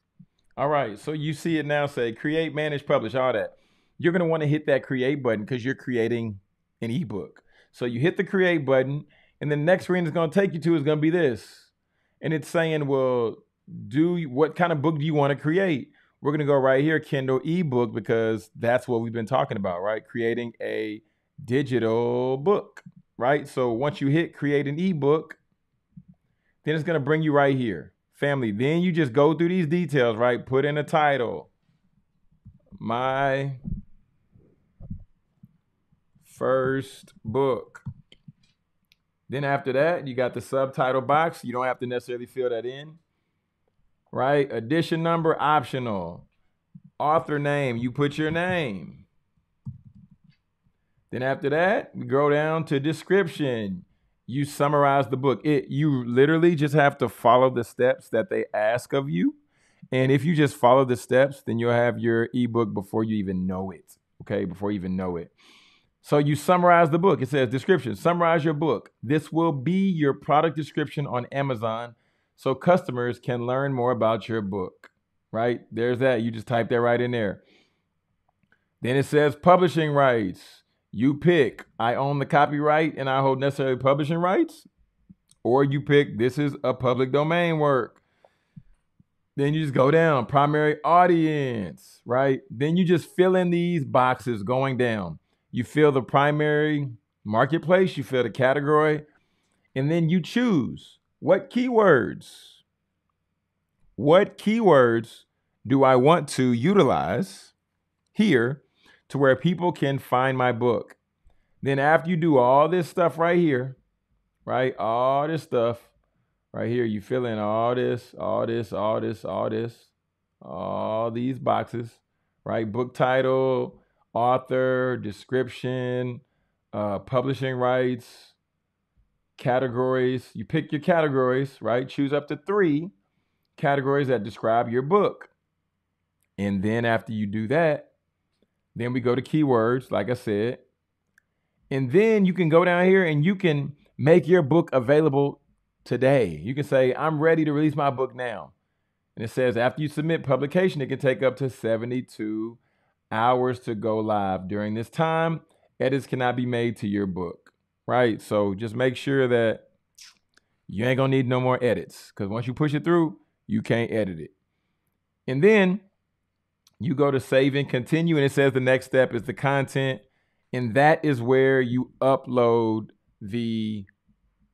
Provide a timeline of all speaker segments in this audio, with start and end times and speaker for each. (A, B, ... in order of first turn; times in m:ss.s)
0:00.6-0:25.4 A
0:26.6-0:31.5 A
0:32.8-0:33.6 A
0:36.2-0:37.8 A
0:39.3-0:43.0 A
0:44.1-0:46.3 A
0:47.0-0:49.0 A
0:51.1-0:59.4 A
0:59.9-1:05.3 A
1:06.0-1:17.4 A
1:18.8-1:24.7 A
1:25.4-1:28.0 A
1:29.4-1:39.0 A
1:39.7-1:42.6 A
1:44.0-1:47.5 A
1:48.1-1:51.0 A
1:51.6-1:53.8 A
1:54.4-1:55.9 A
1:56.5-2:08.4 A
2:09.4-2:12.9 A
2:13.6-2:15.3 A
2:16.4-2:17.9 A
2:18.7-2:20.6 A
2:21.7-2:28.5 A
2:29.2-2:32.6 A
2:33.1-2:39.6 A
2:40.7-2:44.3 A
2:45.3-2:45.8 A
2:46.8-2:53.9 A